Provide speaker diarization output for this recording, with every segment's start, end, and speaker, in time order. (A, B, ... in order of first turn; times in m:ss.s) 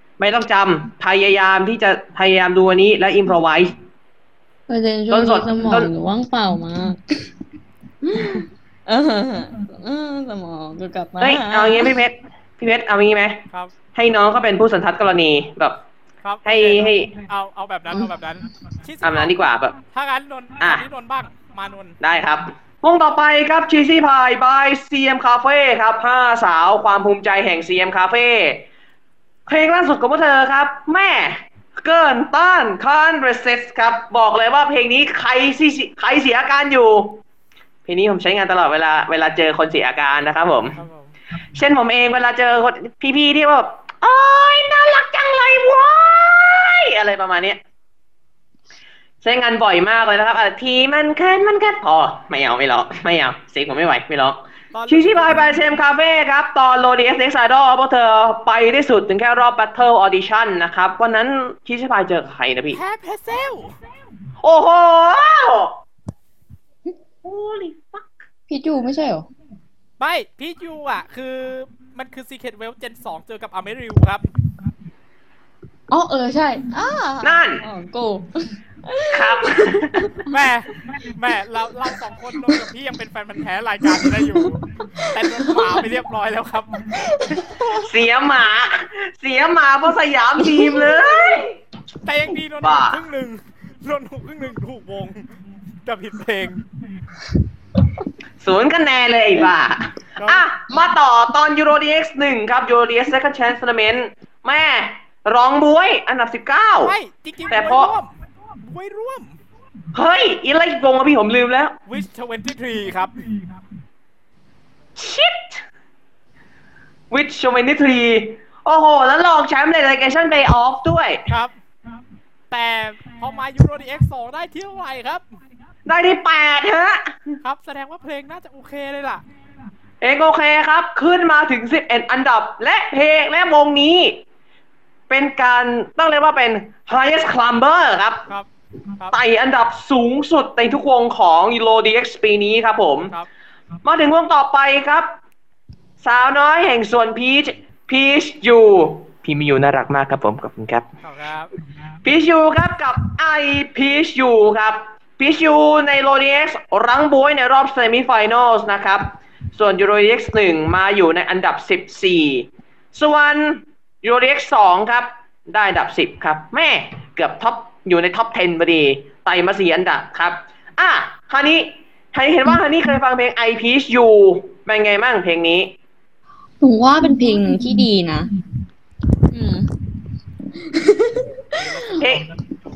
0:00.2-0:03.8 A
0:04.7-0:07.3 B
0:05.1-0:05.9 A
0:08.0-0:11.9 B
0:11.2-0:13.4 A
0:13.9-0:15.8 A
0:16.2-0:19.4 C
0:16.4-0:17.1 A
0:19.0-0:19.7 A
0:19.9-0:22.0 C
0:20.6-0:20.8 A
0:22.0-0:28.6 A
0:29.5-0:37.2 A
0:37.8-0:40.8 A
0:40.7-0:41.1 C
0:41.5-0:47.6 A
0:49.2-1:02.8 A
0:54.7-0:55.5 C
1:02.7-1:03.8 C
1:04.4-1:05.8 A
1:07.2-1:08.1 A
1:08.5-1:09.3 B
1:10.0-1:14.2 C
1:15.9-1:19.8 B
1:17.2-1:17.6 A
1:19.1-1:20.1 A
1:20.3-1:27.7 C
1:25.0-1:25.8 B
1:27.1-1:27.7 B
1:27.8-1:31.6 A
1:30.5-1:31.0 B
1:32.0-1:35.3 C
1:32.6-1:33.0 A
1:35.8-1:36.6 C
1:38.4-1:46.9 A
1:40.2-1:40.4 C
1:46.8-1:49.4 C
1:47.5-1:47.9 A
1:49.9-1:51.8 A
1:51.8-1:53.1 C
1:55.0-1:55.6 A
1:57.1-2:01.2 A
2:01.3-2:01.5 C
2:02.5-2:05.2 C
2:05.8-2:07.4 A
2:07.4-2:09.2 C
2:10.0-2:14.2 A
2:15.1-2:18.2 A
2:18.3-2:19.2 C
2:19.1-2:23.1 A
2:23.8-2:25.1 A
2:26.0-2:30.8 A
2:31.0-2:31.5 C
2:32.0-2:55.7 A
2:56.6-2:58.3 B
2:59.3-2:59.7 B
3:00.5-3:01.6 B
3:01.5-3:02.3 C
3:02.0-3:02.2 A